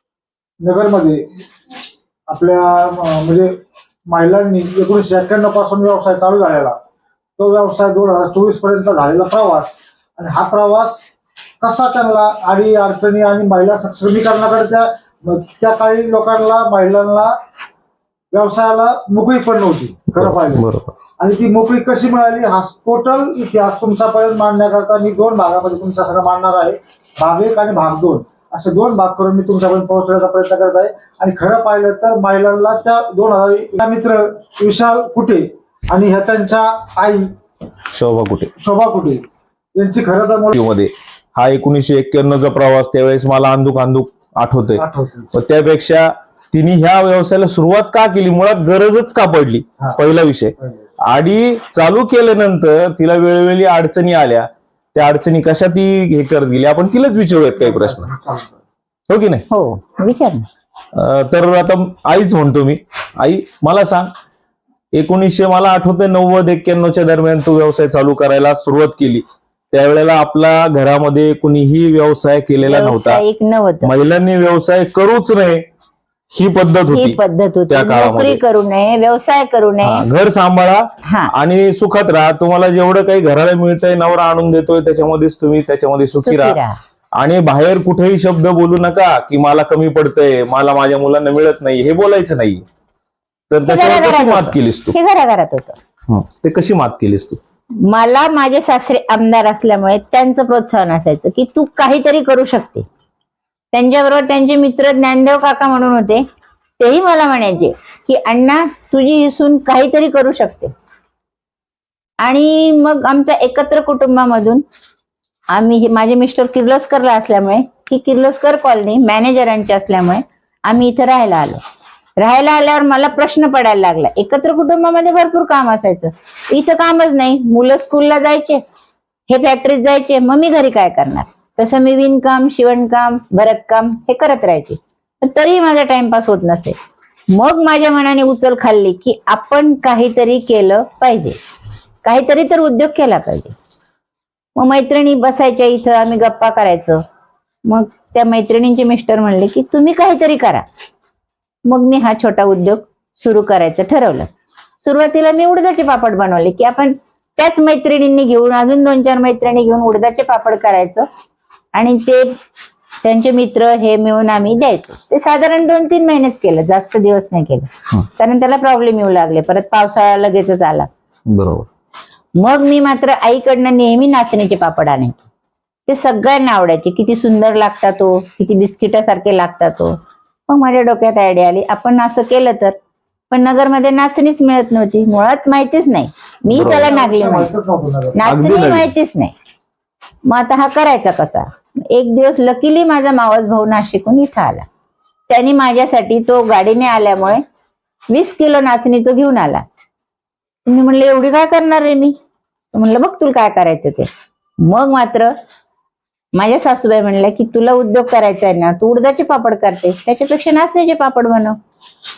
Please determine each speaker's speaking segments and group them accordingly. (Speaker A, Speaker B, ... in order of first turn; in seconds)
Speaker A: 0.6-1.3, 2.3-3.5, 4.1-6.8, 7.4-11.0, 11.6-17.3, 18.3-20.6, 21.2-37.3, 38.5-39.2, 39.7-40.6, 44.8-45.3, 57.6-58.5, 186.5-188.3
Speaker B: 20.1-20.9, 37.9-38.5, 40.5-44.8, 45.3-58.1, 59.1-59.4, 60.9-64.1, 64.9-73.2, 73.8-75.6, 76.3-77.2, 77.7-78.4, 79.8-86.6, 87.2-92.6, 93.5-94.9, 96.1-97.4, 171.3-171.7, 186.5-186.9, 188.2-188.9
Speaker C: 59.5-60.5, 72.6-73.9, 76.9-80.0, 81.0-81.3, 86.2-86.8, 93.6-95.8, 97.8-102.8, 103.7-106.2, 106.8-110.7, 112.2-114.6, 115.5-121.6, 122.2-128.6, 129.3-136.8, 137.3-141.4, 142.0-143.5, 144.6-147.0, 147.7-150.6, 151.7-154.3, 154.8-161.1, 161.7-162.3, 163.0-170.9, 172.4-175.2, 175.9-179.9, 180.5-182.7, 183.3-187.5, 188.2-189.3, 190.3-194.7, 195.3-197.4, 198.1-199.6, 200.7-202.1, 202.7-204.1, 204.6-205.3, 206.3-211.6